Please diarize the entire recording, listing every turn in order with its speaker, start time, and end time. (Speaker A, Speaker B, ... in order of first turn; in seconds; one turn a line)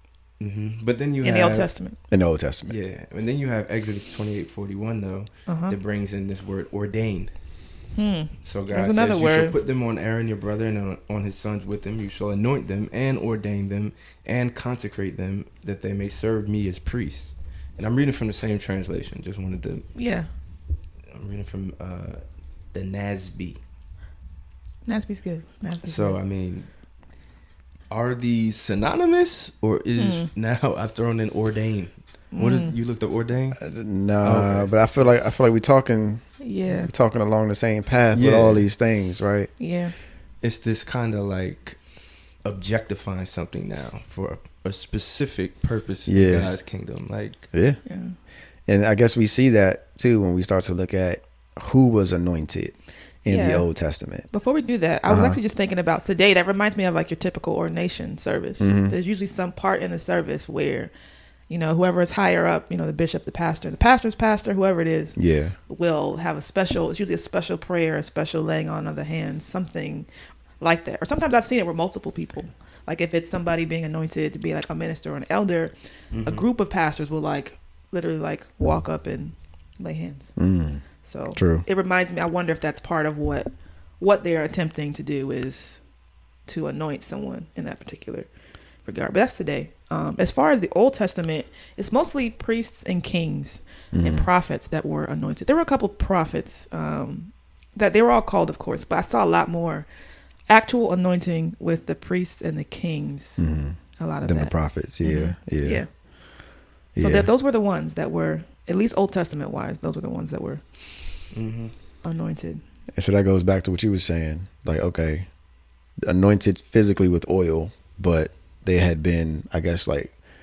Speaker A: 0.4-1.7
Speaker B: 1.2-1.9
Speaker C: 2.1-2.8
Speaker A: 2.7-7.3
Speaker B: 5.5-5.8
Speaker B: 7.9-9.5
Speaker A: 8.4-19.9
Speaker B: 19.9-20.3
Speaker A: 21.1-22.2
Speaker A: 22.7-23.6
Speaker B: 24.9-26.2
Speaker A: 25.8-26.7
Speaker A: 27.9-33.6
Speaker B: 30.0-30.3
Speaker B: 32.3-32.7
Speaker C: 33.6-39.5
Speaker A: 34.2-34.7
Speaker B: 36.4-36.9
Speaker A: 38.1-38.7
Speaker B: 39.6-39.9
Speaker A: 40.4-41.8
Speaker A: 42.4-47.5
Speaker C: 46.1-46.5
Speaker B: 47.9-48.1
Speaker C: 48.7-54.3
Speaker B: 53.2-53.7
Speaker B: 54.3-60.9
Speaker C: 55.1-55.4
Speaker C: 58.6-58.9
Speaker B: 61.5-65.2
Speaker C: 65.2-65.5
Speaker B: 65.7-70.1
Speaker B: 70.6-80.3
Speaker A: 76.1-76.4
Speaker C: 80.3-80.8
Speaker B: 81.0-85.8
Speaker C: 81.3-81.7
Speaker B: 86.5-88.3
Speaker B: 88.8-99.9
Speaker C: 93.9-94.3
Speaker B: 100.5-103.4
Speaker C: 103.4-105.8
Speaker B: 104.0-105.9
Speaker C: 106.9-107.3
Speaker B: 107.0-110.6
Speaker A: 111.3-111.7
Speaker B: 112.0-112.6
Speaker C: 113.0-115.3
Speaker C: 116.0-120.1